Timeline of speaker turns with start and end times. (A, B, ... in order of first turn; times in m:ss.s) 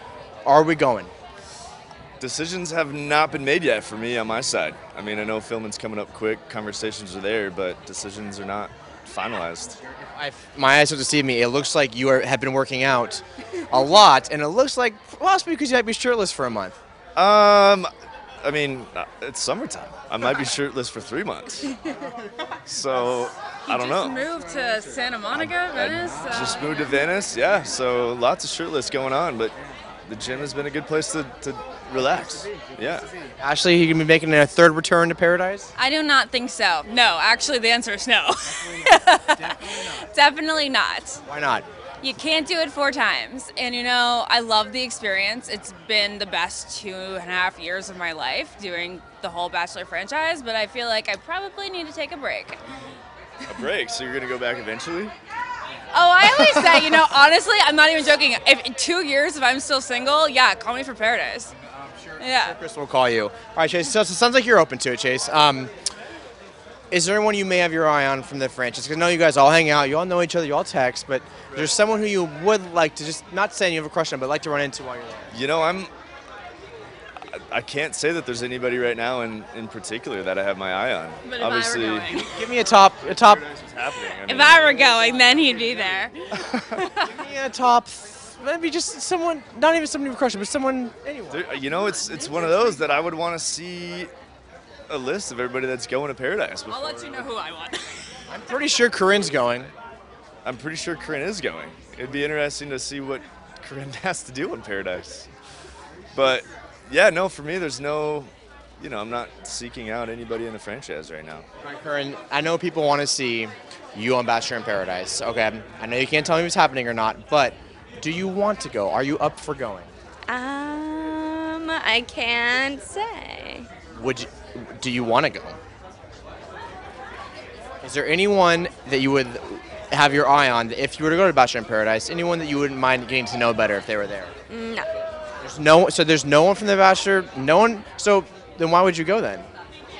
0:00.4-0:01.1 A
0:02.2-0:09.8 B
0:10.1-0:16.8 A
0:17.2-0:17.9 B
0:18.4-0:21.7 B
0:22.6-0:24.2 B
0:23.6-0:26.8 C
0:25.7-0:29.5 B
0:30.1-0:33.1 B
0:33.4-0:35.7 A
0:35.8-0:41.2 C
0:41.2-0:41.6 A
0:42.0-0:52.6 C
0:53.4-0:55.1 B
0:55.9-1:01.5 C
0:56.3-0:56.7 B
1:02.1-1:05.7 A
1:02.2-1:02.6 C
1:06.9-1:15.4 A
1:15.3-1:15.9 B
1:17.3-1:24.9 B
1:21.2-1:22.4 C
1:22.2-1:23.4 A
1:24.2-1:27.1 C
1:26.3-1:26.8 B
1:27.0-1:31.4 A
1:31.3-1:34.1 B
1:31.8-1:32.8 C
1:34.9-1:37.3 B
1:36.7-1:38.4 C
1:38.3-1:39.7 A
1:40.4-1:45.3 B
1:46.1-1:51.4 B
1:51.6-1:59.9 A
2:00.3-2:03.7 D
2:03.9-2:05.6 A
2:07.8-2:14.3 A
2:14.5-2:14.9 D
2:15.4-2:19.5 A